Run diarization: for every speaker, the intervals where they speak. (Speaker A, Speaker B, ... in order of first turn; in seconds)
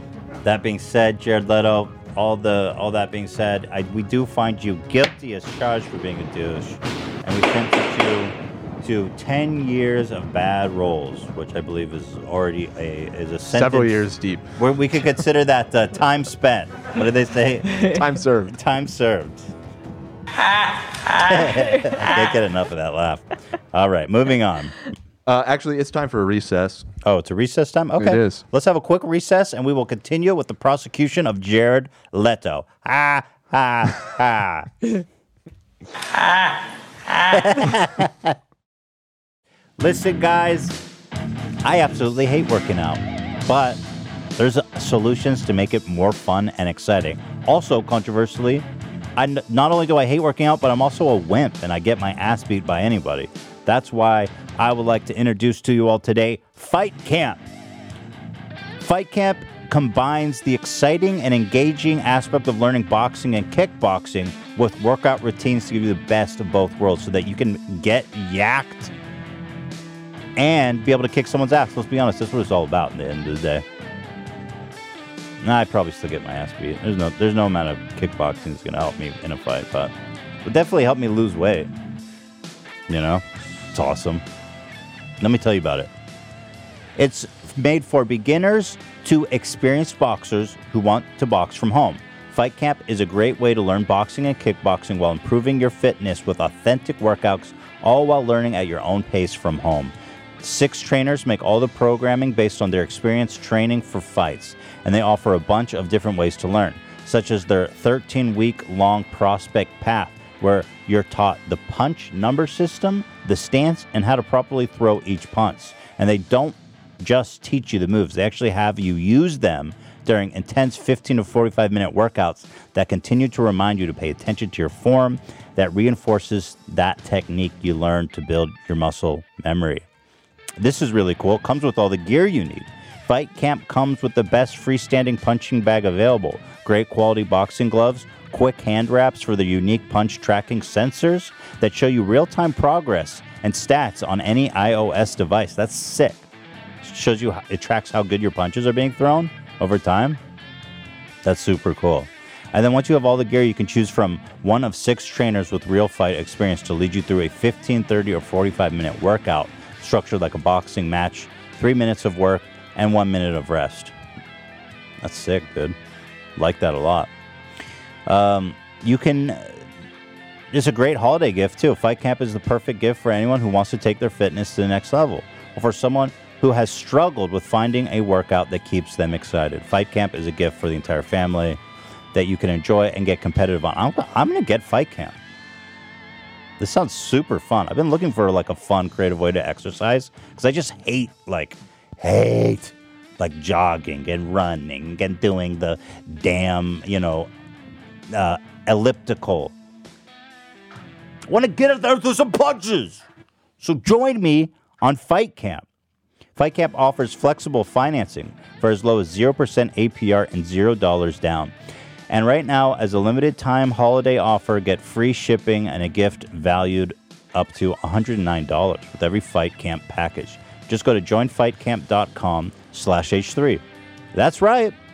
Speaker A: 0.4-14.0, 14.6-17.8, 18.5-19.5, 21.2-24.7, 27.0-34.7, 37.3-38.3, 39.8-40.8, 41.6-43.8, 44.4-57.5, 58.8-68.9, 70.3-73.6, 75.4-79.9, 80.4-81.7, 82.9-84.2, 85.2-85.9, 87.0-129.8, 130.6-146.3, 146.8-150.2, 151.2-163.9, 165.0-165.8, 166.3-167.1, 168.1-169.7, 170.5-181.6, 182.1-185.2, 186.6-197.3, 198.1-199.5, 201.3-203.1, 203.6-205.7, 206.3-211.5, 212.1-223.6, 224.1-224.7
Speaker B: 13.5-14.5, 17.9-18.5, 25.2-26.9, 28.0-28.4